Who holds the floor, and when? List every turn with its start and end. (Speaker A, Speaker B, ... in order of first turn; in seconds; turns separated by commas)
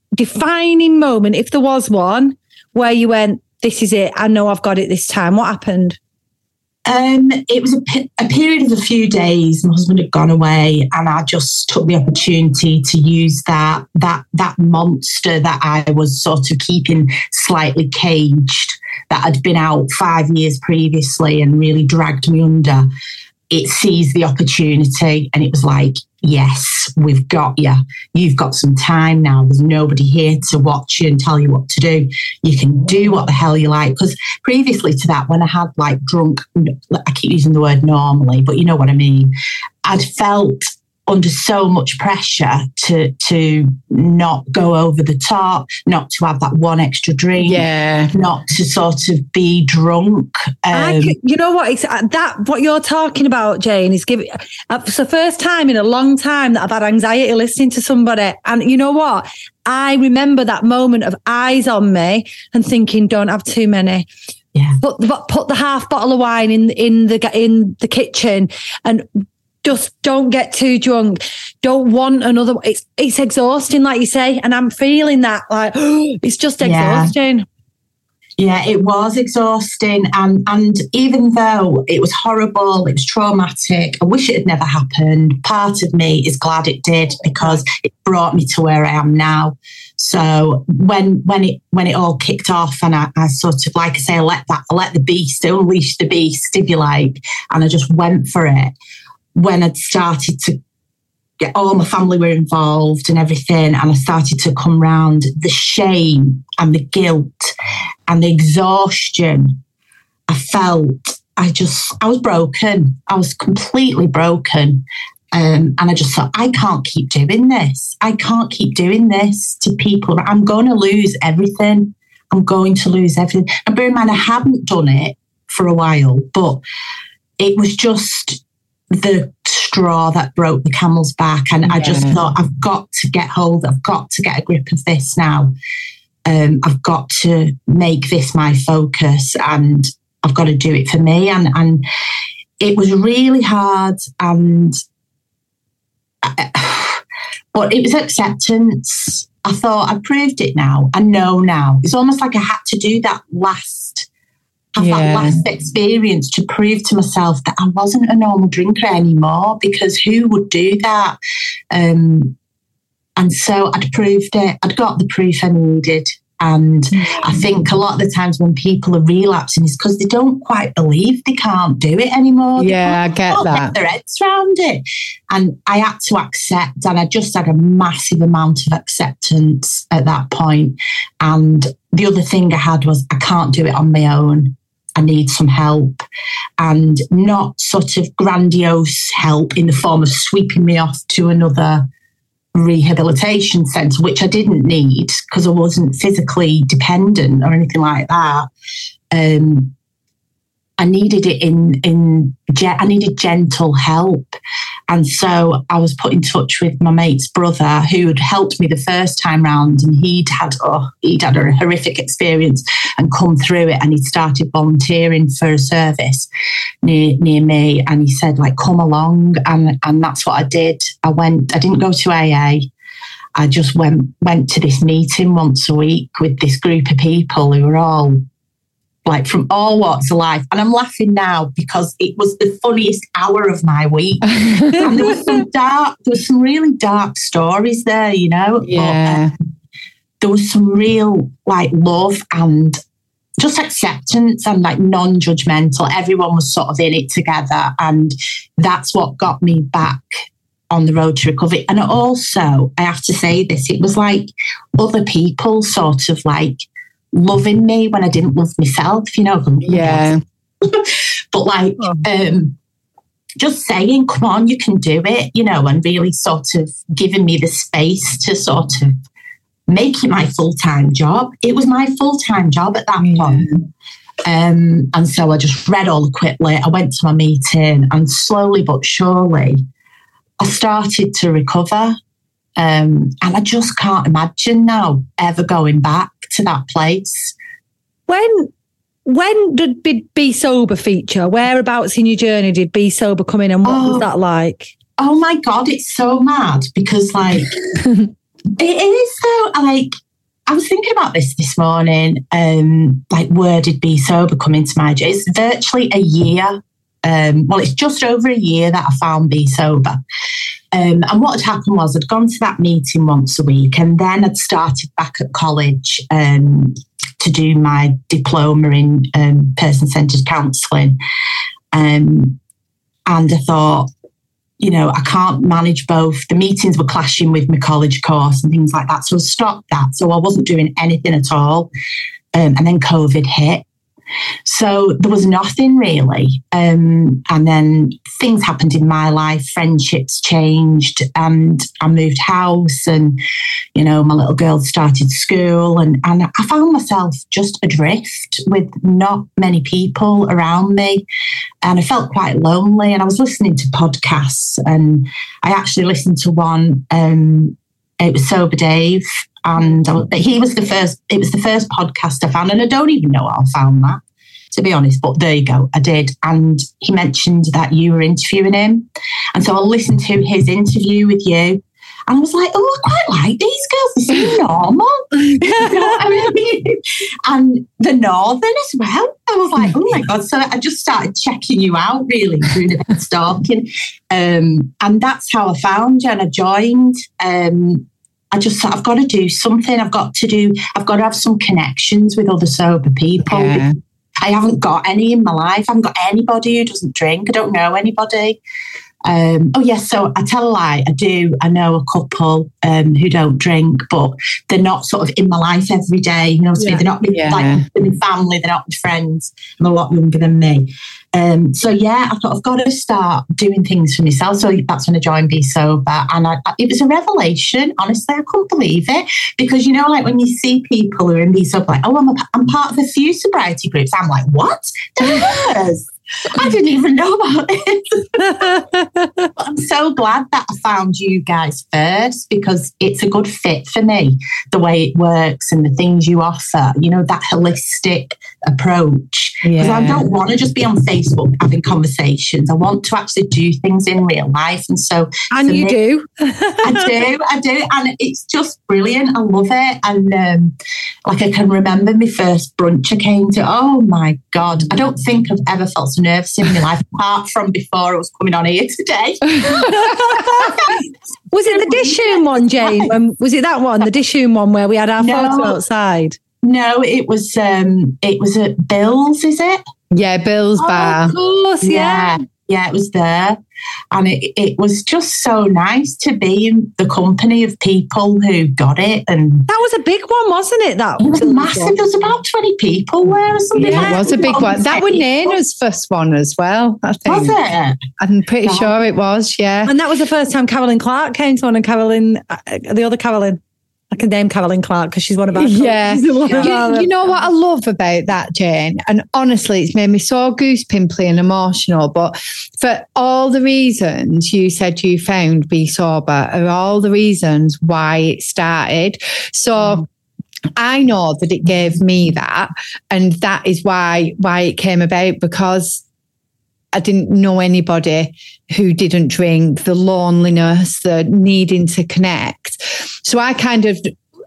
Speaker A: 0.1-6.0, Speaker B: 6.9-22.9, Speaker B: 23.5-39.3, Speaker B: 39.9-51.1, Speaker C: 47.4-48.1, Speaker A: 50.7-64.1, Speaker B: 64.5-64.8, Speaker A: 64.8-77.5, Speaker B: 76.6-77.1, Speaker B: 78.4-98.7, Speaker B: 99.3-100.6, Speaker B: 101.4-107.5, Speaker B: 108.1-109.6, Speaker B: 110.3-126.6, Speaker B: 127.4-135.5, Speaker C: 131.7-132.2, Speaker B: 136.3-141.8, Speaker B: 142.6-144.8, Speaker B: 146.2-147.0, Speaker B: 147.5-154.1, Speaker B: 154.8-161.2, Speaker C: 154.8-155.4, Speaker B: 161.7-162.4, Speaker B: 163.2-186.0, Speaker C: 166.9-167.4, Speaker C: 172.6-173.8, Speaker B: 186.6-191.9, Speaker B: 192.6-198.5, Speaker B: 199.1-199.7, Speaker B: 200.8-204.4, Speaker B: 204.9-216.3, Speaker B: 216.8-222.7, Speaker B: 223.4-228.2, Speaker B: 229.1-239.2, Speaker C: 234.3-234.9, Speaker C: 238.7-239.3, Speaker B: 240.2-242.8, Speaker B: 243.4-250.0, Speaker B: 250.7-262.6, Speaker C: 259.7-260.2, Speaker B: 263.4-268.9, Speaker B: 269.7-273.7, Speaker C: 273.1-273.5, Speaker B: 274.2-279.6, Speaker B: 280.4-281.9, Speaker B: 282.6-287.4, Speaker A: 288.1-288.5, Speaker A: 289.1-294.7, Speaker B: 293.6-294.1, Speaker B: 295.0-297.6, Speaker B: 298.6-299.9, Speaker B: 300.5-310.0, Speaker B: 310.7-321.0, Speaker B: 321.7-322.4, Speaker B: 323.1-323.9, Speaker B: 324.6-331.7, Speaker B: 332.4-333.6, Speaker B: 334.4-343.2, Speaker B: 343.8-351.1, Speaker B: 351.6-364.0, Speaker B: 364.5-393.6, Speaker C: 393.3-393.8, Speaker B: 394.2-398.4, Speaker B: 399.1-428.6, Speaker C: 406.7-407.6, Speaker A: 428.3-429.3, Speaker B: 429.4-445.8, Speaker C: 439.4-440.0, Speaker A: 445.3-446.9, Speaker B: 446.6-450.6, Speaker B: 451.1-460.9, Speaker C: 459.3-460.2, Speaker A: 459.5-460.7, Speaker A: 461.3-466.2, Speaker B: 461.4-462.9, Speaker B: 465.0-465.6, Speaker B: 466.4-469.6, Speaker C: 469.9-471.1, Speaker A: 470.6-472.2, Speaker B: 471.6-473.4, Speaker B: 473.9-479.5, Speaker A: 479.5-481.8, Speaker B: 481.0-485.3, Speaker C: 483.6-487.4, Speaker A: 483.6-484.0, Speaker B: 487.1-487.8, Speaker C: 488.0-489.7, Speaker B: 488.4-488.8, Speaker A: 489.7-493.4, Speaker A: 493.9-497.0, Speaker C: 495.4-509.9, Speaker C: 510.6-515.8, Speaker C: 516.7-523.9